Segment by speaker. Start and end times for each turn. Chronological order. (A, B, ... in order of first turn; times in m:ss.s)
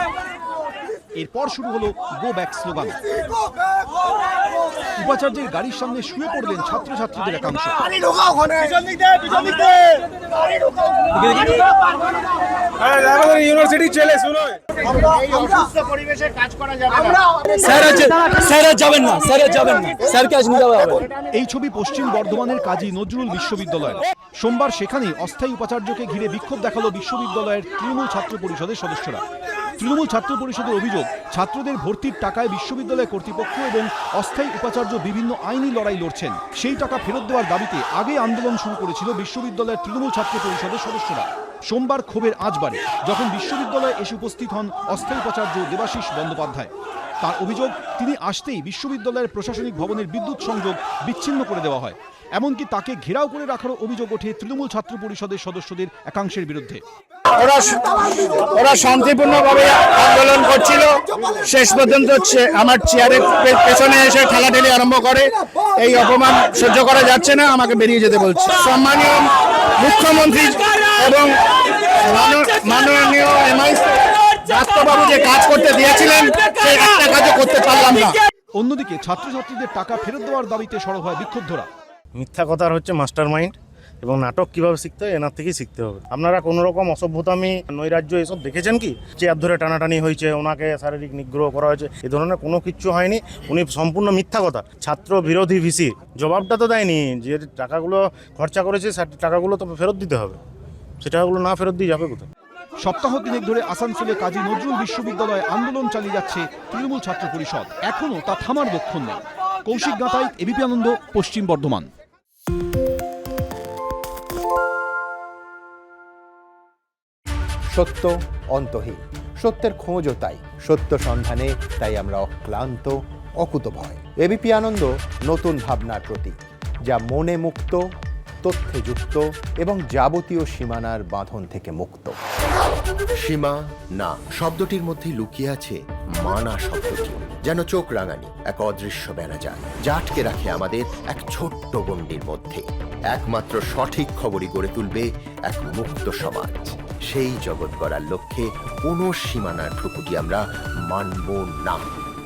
0:01.1-0:03.0 A
0:05.0-0:07.8 A
0:07.9-0:11.9 B
0:12.8-0:19.0 B
0:17.6-0:20.9 C
0:19.6-0:21.0 B
0:21.3-0:29.2 A
0:29.7-0:56.8 A
0:57.4-1:11.3 C
1:11.9-1:18.2 C
1:18.5-1:21.7 A
1:22.2-1:40.4 B
1:41.0-1:42.3 B
1:42.8-1:51.9 A
1:57.7-2:06.4 D
2:06.9-2:07.8 D
2:08.4-2:12.2 D
2:13.2-2:31.9 E